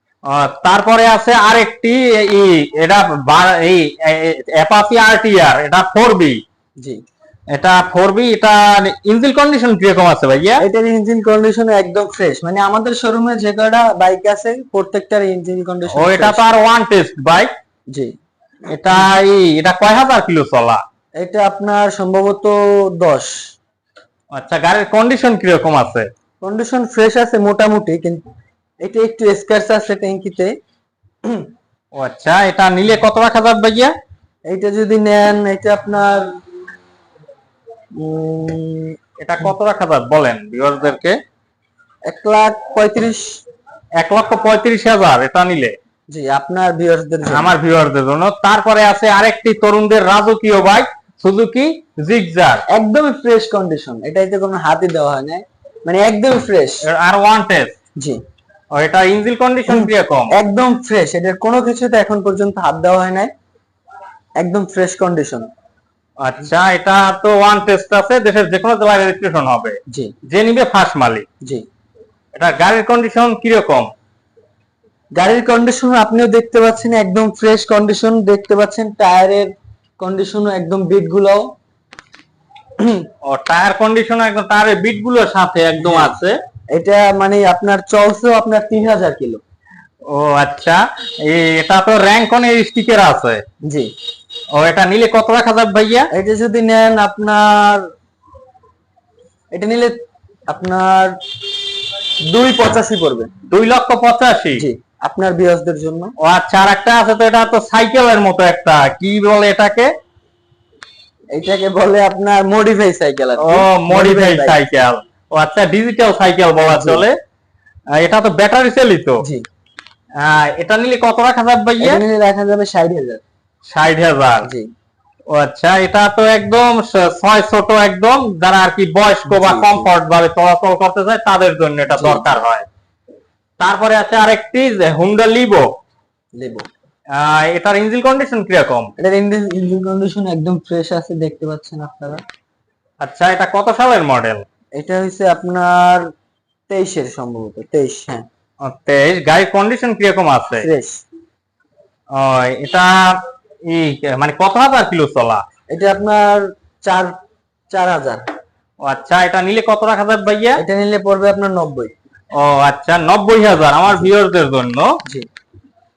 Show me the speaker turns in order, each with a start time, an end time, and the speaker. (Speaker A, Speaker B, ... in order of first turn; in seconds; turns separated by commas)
Speaker A: 0.3-6.4, Speaker A: 7.5-10.6, Speaker B: 10.6-16.4, Speaker A: 15.9-17.5, Speaker A: 18.7-20.8, Speaker B: 18.7-19.1, Speaker B: 21.2-23.4, Speaker A: 24.3-26.1, Speaker B: 26.4-28.2, Speaker B: 28.8-30.5, Speaker A: 32.0-33.9, Speaker B: 34.5-36.2, Speaker B: 38.0-39.0, Speaker A: 39.2-41.2, Speaker B: 42.1-43.4, Speaker A: 44.0-45.8, Speaker B: 46.1-47.5, Speaker A: 47.3-52.6, Speaker B: 52.7-56.8, Speaker A: 56.8-57.8, Speaker A: 58.8-60.3, Speaker B: 59.7-63.3, Speaker B: 64.4-65.5, Speaker A: 66.2-71.3, Speaker A: 72.3-73.9, Speaker B: 75.2-79.5, Speaker B: 80.0-81.4, Speaker B: 82.8-83.1, Speaker A: 83.2-86.4, Speaker B: 85.8-86.2, Speaker B: 86.8-89.4, Speaker A: 90.1-93.4, Speaker B: 93.7-93.9, Speaker A: 94.5-96.1, Speaker B: 96.1-97.9, Speaker B: 99.5-100.0, Speaker B: 100.5-101.2, Speaker B: 102.3-103.3, Speaker A: 103.5-104.7, Speaker B: 104.6-106.1, Speaker A: 106.2-109.9, Speaker B: 111.3-114.6, Speaker A: 113.4-117.2, Speaker B: 116.6-117.1, Speaker A: 118.0-119.2, Speaker A: 120.2-122.0, Speaker B: 121.8-123.2, Speaker A: 123.7-124.5, Speaker B: 124.4-124.7, Speaker A: 125.3-132.7, Speaker B: 129.3-129.9, Speaker B: 131.9-132.4, Speaker A: 133.6-135.7, Speaker B: 136.4-136.7, Speaker A: 137.1-138.9, Speaker B: 139.0-142.2, Speaker A: 143.0-144.4, Speaker B: 144.8-146.1, Speaker B: 146.7-148.3, Speaker A: 148.6-150.7, Speaker B: 150.6-151.0, Speaker A: 152.2-152.9, Speaker A: 153.7-155.4, Speaker B: 155.7-157.1, Speaker B: 157.7-158.2, Speaker A: 158.8-160.6, Speaker B: 160.6-161.9, Speaker A: 162.3-164.9